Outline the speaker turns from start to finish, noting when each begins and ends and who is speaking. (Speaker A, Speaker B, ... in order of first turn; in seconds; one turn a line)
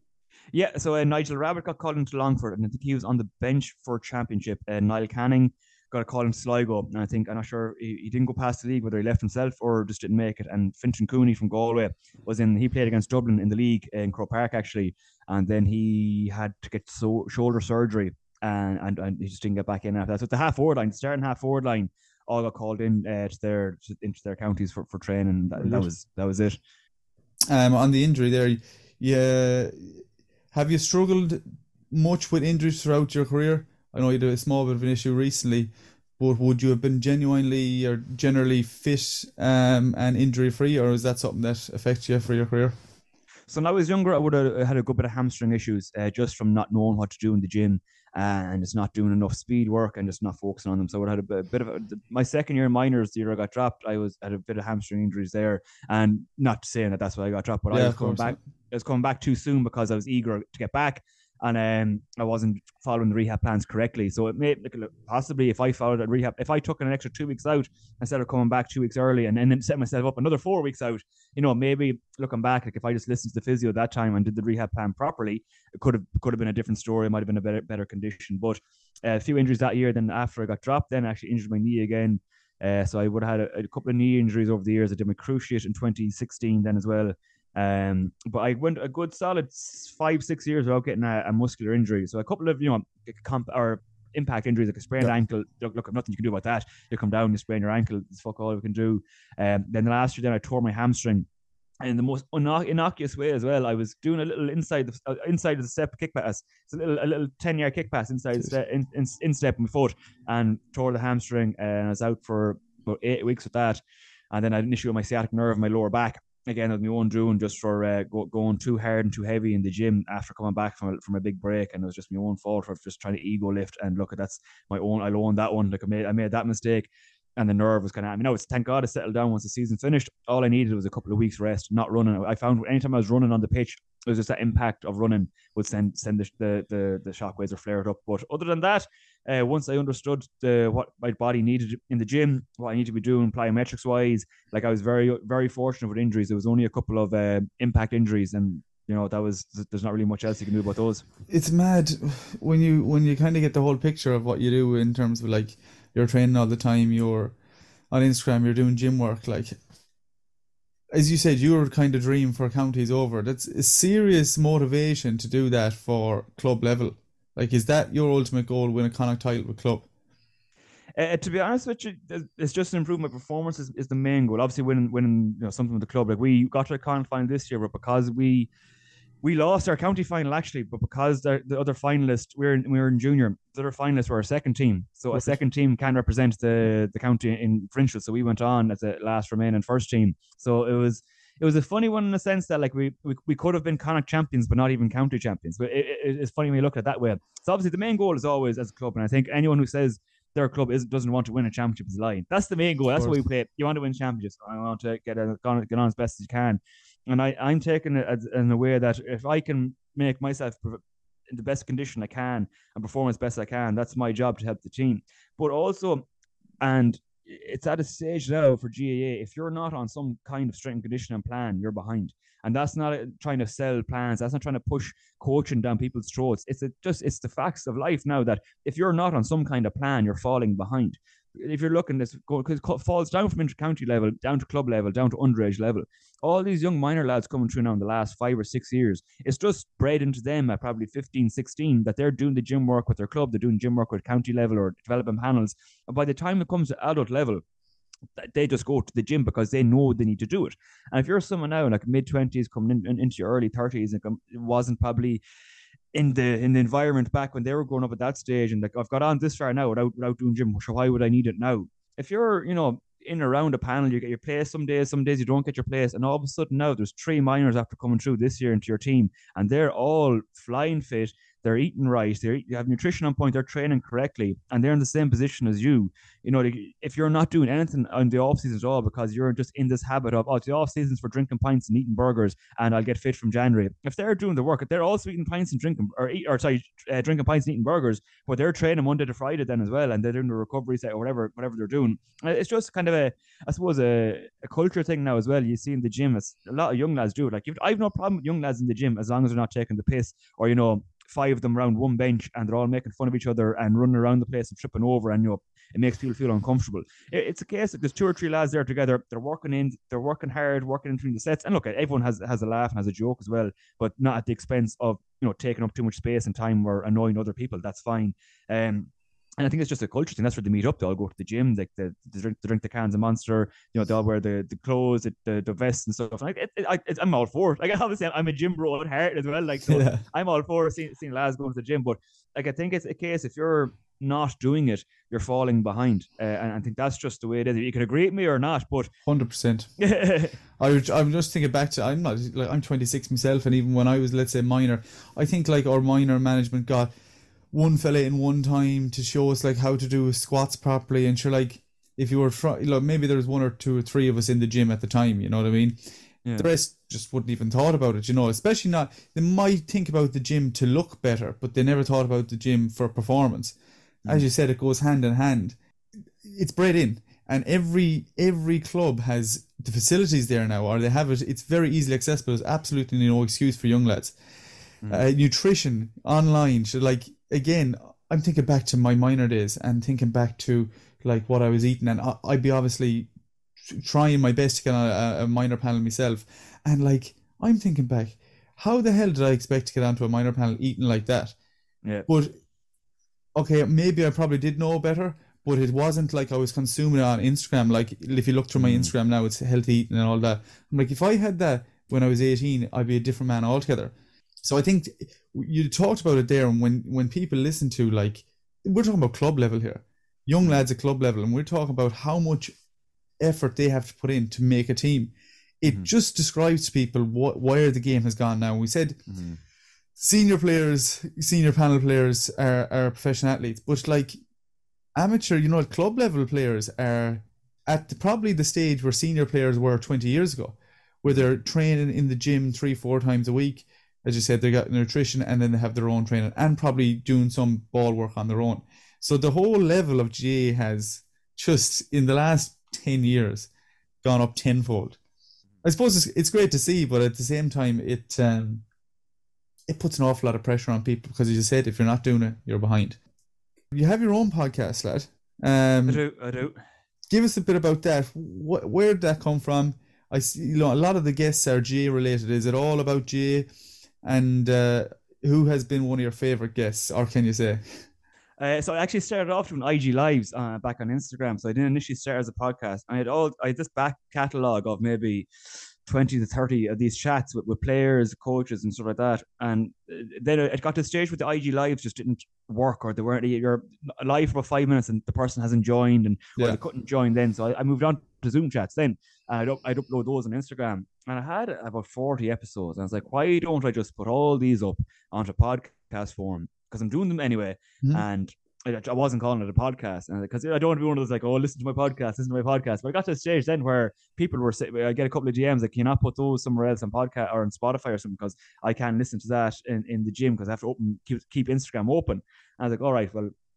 Speaker A: 0.5-26.6
Speaker B: 25.6-25.9
Speaker B: 27.5-42.7
Speaker A: 43.5-101.2
Speaker B: 57.7-58.4
Speaker A: 101.8-113.8
Speaker A: 114.3-151.0
Speaker B: 151.3-157.3
Speaker B: 157.9-159.6
Speaker B: 160.9-169.9
Speaker A: 171.0-178.5
Speaker A: 179.2-216.1
Speaker B: 185.1-185.4
Speaker A: 216.6-247.4
Speaker A: 248.2-255.2
Speaker A: 255.9-338.9
Speaker B: 329.7-330.0
Speaker B: 339.1-339.7
Speaker A: 339.8-340.3
Speaker B: 340.6-346.9
Speaker B: 347.5-355.8
Speaker A: 356.2-356.5
Speaker B: 356.3-363.6
Speaker B: 364.1-365.6
Speaker B: 366.2-374.1
Speaker B: 374.9-391.3
Speaker B: 392.1-392.3
Speaker B: 393.3-412.5
Speaker A: 398.6-398.9
Speaker B: 413.2-419.0
Speaker A: 419.1-419.4
Speaker B: 420.0-424.2
Speaker B: 424.9-443.5
Speaker B: 444.0-445.0
Speaker B: 445.6-448.6
Speaker B: 449.7-453.0
Speaker B: 453.7-456.0
Speaker A: 455.9-456.6
Speaker B: 457.1-463.5
Speaker B: 464.0-467.6
Speaker A: 468.4-475.3
Speaker A: 475.8-513.3